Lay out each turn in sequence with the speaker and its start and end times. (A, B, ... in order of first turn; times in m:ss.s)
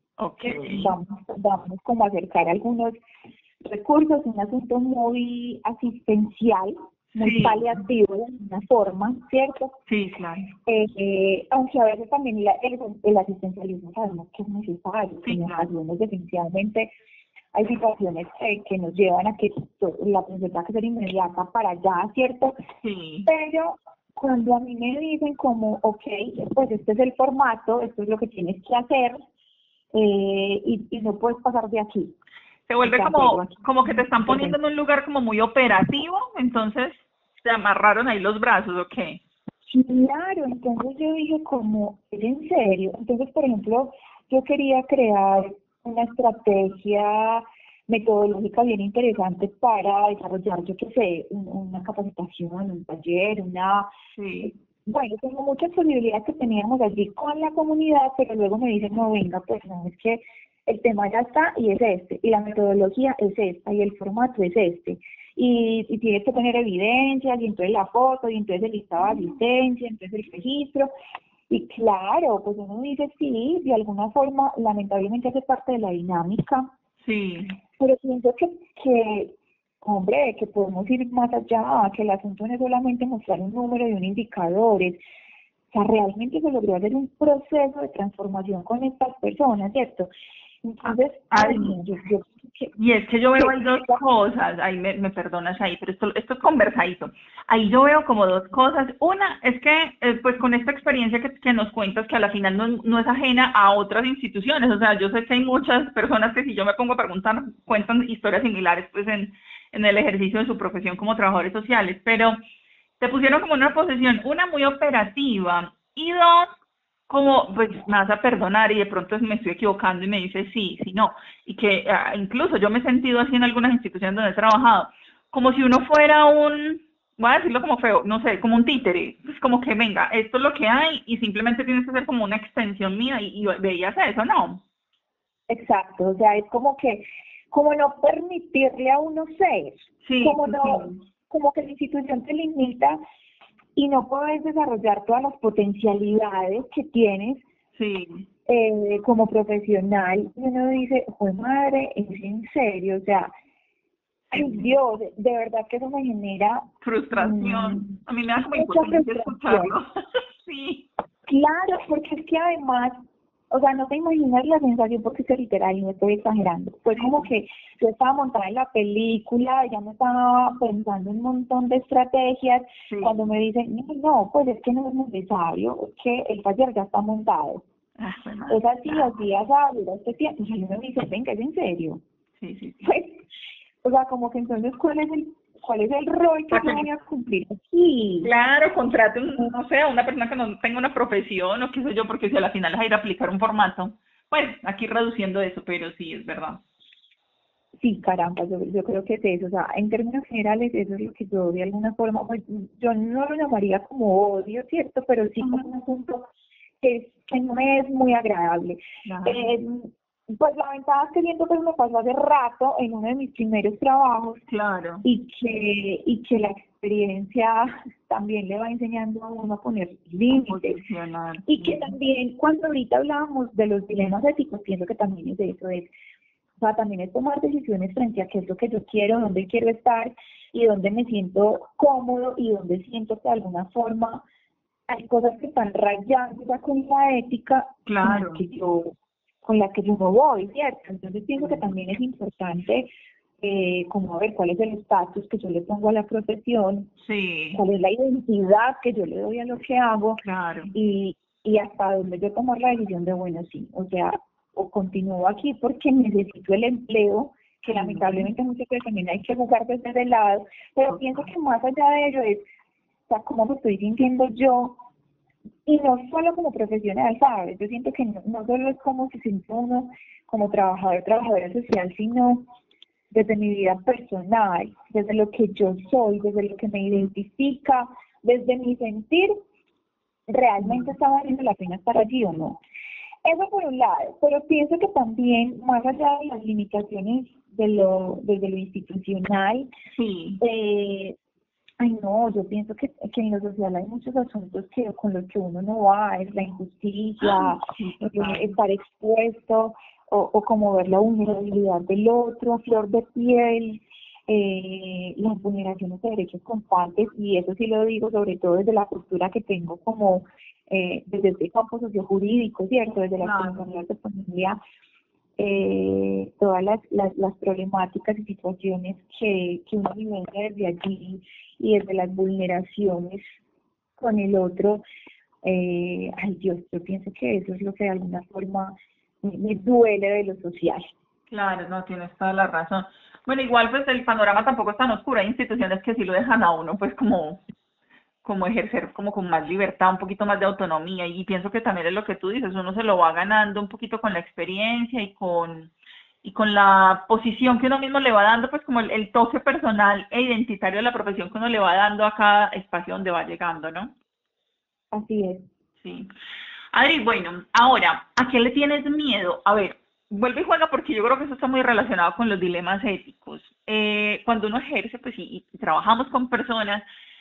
0:00.2-0:00.9 A
0:00.4-0:02.9 B
0:03.6-0:09.7 B
0:07.2-0:07.7 A
0:09.9-0:10.5 A
0:10.6-0:16.9 B
0:15.2-0:15.7 A
0:17.5-0:22.6 B
0:22.8-0:23.3 A
0:23.2-0:29.2 B
0:29.9-0:32.1 B
0:32.7-0:39.2 A
0:32.8-0:34.6 B
0:39.7-0:53.9 B
0:54.2-0:54.5 A
0:54.4-1:10.9 B
1:11.5-1:16.7 B
1:17.0-1:17.6 A
1:17.8-1:25.0 B
1:25.7-1:30.1 B
1:30.6-1:32.7 B
1:31.3-1:31.8 A
1:32.8-1:52.4 A
1:33.3-1:34.0 B
1:53.0-1:56.5 A
1:57.1-2:14.6 A
2:15.5-2:23.0 B
2:20.0-2:21.0 A
2:23.8-2:27.4 B
2:27.8-2:28.3 A
2:28.5-2:33.3 B
2:34.3-2:34.7 A
2:34.3-2:38.0 B
2:36.8-2:40.8 A
2:38.5-2:39.7 B
2:41.3-2:43.0 B
2:43.5-2:57.6 B
2:46.9-2:47.3 A
2:58.0-2:59.1 A
2:58.5-3:02.0 B
3:02.4-3:02.9 A
3:02.8-3:03.2 B
3:03.8-3:08.3 B
3:06.5-3:06.8 A
3:08.2-3:16.6 A
3:17.8-3:26.3 B
3:25.4-3:25.7 A
3:26.8-3:34.4 B
3:29.0-3:29.5 A
3:34.5-3:35.0 A
3:35.0-3:40.8 B
3:40.3-3:41.9 A
3:41.5-3:45.9 B
3:46.6-3:54.2 B
3:54.9-4:02.9 B
3:57.9-3:58.4 A
4:03.4-4:06.9 B
4:07.0-4:07.6 A
4:07.5-4:22.4 B
4:10.2-4:10.7 A
4:17.7-4:18.3 A
4:20.9-4:21.2 A
4:23.1-4:24.8 B
4:25.6-4:32.4 B
4:33.1-4:39.3 B
4:40.3-4:42.6 B
4:40.6-4:40.9 A
4:43.2-4:49.7 B
4:50.0-4:50.4 A
4:50.4-4:51.2 B
4:51.8-5:14.6 B
4:57.2-4:58.5 A
5:13.2-5:13.6 A
5:15.4-5:23.3 B
5:24.0-5:24.8 B
5:25.4-5:30.9 B
5:31.3-5:37.4 A
5:38.2-5:45.7 A
5:46.2-5:53.9 A
5:54.9-5:55.4 B
5:55.8-5:56.1 A
5:56.7-6:06.8 A